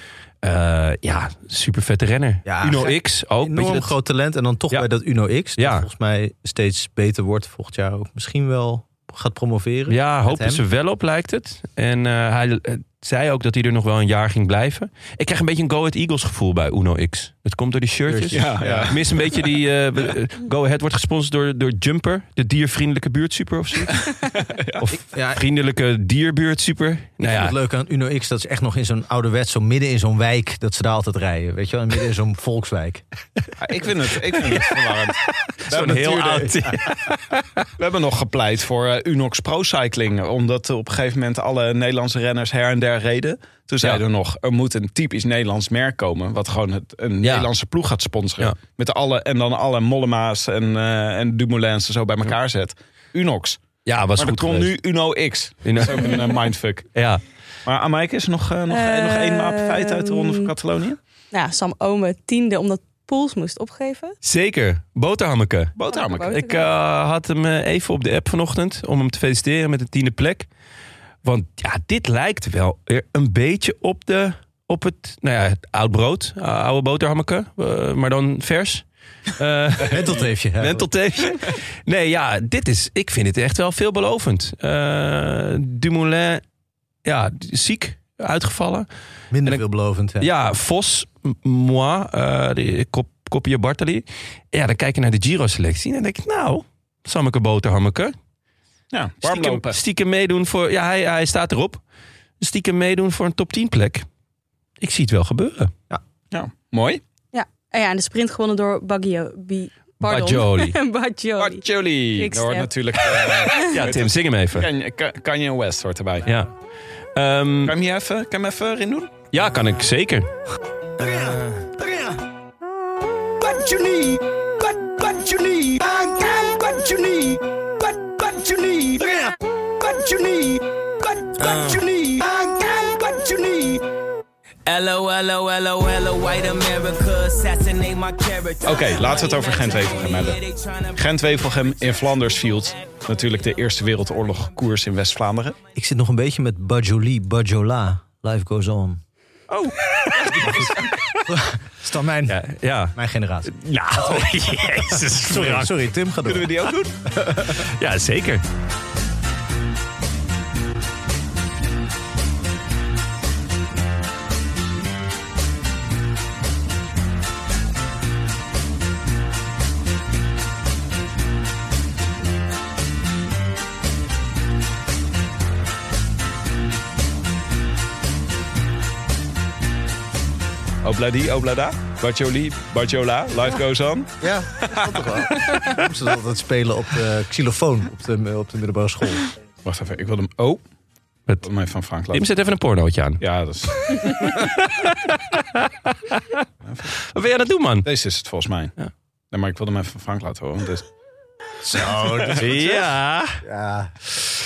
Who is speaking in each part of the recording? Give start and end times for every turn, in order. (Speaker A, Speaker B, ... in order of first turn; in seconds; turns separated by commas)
Speaker A: 0.4-3.9, Speaker B: 2.5-10.6, Speaker A: 5.6-5.9, Speaker A: 9.9-24.1, Speaker B: 18.1-19.0, Speaker C: 18.3-19.0, Speaker C: 24.1-24.9, Speaker A: 24.9-27.5, Speaker B: 25.1-25.4, Speaker B: 27.2-33.0, Speaker C: 33.6-36.7, Speaker A: 34.4-34.7, Speaker A: 35.4-37.6, Speaker C: 37.8-53.6, Speaker A: 47.2-47.5, Speaker A: 53.8-54.7, Speaker C: 54.2-56.9, Speaker A: 55.6-56.2, Speaker A: 56.9-57.2, Speaker C: 57.6-61.0, Speaker D: 58.7-60.5, Speaker D: 61.3-64.2, Speaker A: 64.2-70.5, Speaker C: 65.8-66.3, Speaker D: 65.9-66.7, Speaker A: 71.2-86.4, Speaker B: 79.9-80.9, Speaker A: 87.0-88.9, Speaker B: 89.3-90.3, Speaker A: 90.2-98.1, Speaker C: 98.9-99.8, Speaker A: 99.2-101.8, Speaker A: 102.4-104.0, Speaker A: 104.8-105.7, Speaker C: 106.3-107.0, Speaker D: 107.3-113.8, Speaker A: 110.0-110.8, Speaker C: 111.4-116.3, Speaker A: 113.7-114.7, Speaker A: 117.1-117.8, Speaker C: 117.7-119.2, Speaker A: 119.3-120.3, Speaker B: 121.0-122.2, Speaker D: 126.2-126.8, Speaker B: 128.9-129.3, Speaker E: 131.4-131.7, Speaker E: 134.7-141.0, Speaker C: 138.7-140.4, Speaker C: 140.9-145.6, Speaker B: 145.7-149.0, Speaker C: 149.5-150.9, Speaker A: 149.5-151.2, Speaker B: 151.3-152.4, Speaker A: 152.3-155.7, Speaker B: 152.9-153.5, Speaker C: 154.0-154.3, Speaker B: 155.2-156.7, Speaker C: 156.2-156.9, Speaker B: 157.2-157.6, Speaker A: 157.5-158.4, Speaker C: 180.8-184.2, Speaker B: 184.2-189.3, Speaker C: 184.7-185.0, Speaker C: 189.6-190.6, Speaker C: 191.4-192.2, Speaker A: 192.1-193.2, Speaker C: 193.2-194.4, Speaker A: 193.8-196.4, Speaker C: 196.6-196.9, Speaker A: 197.1-197.9, Speaker C: 197.8-198.7, Speaker C: 199.3-200.8, Speaker B: 201.6-202.8, Speaker C: 202.2-202.8, Speaker A: 202.3-203.4, Speaker B: 203.4-203.9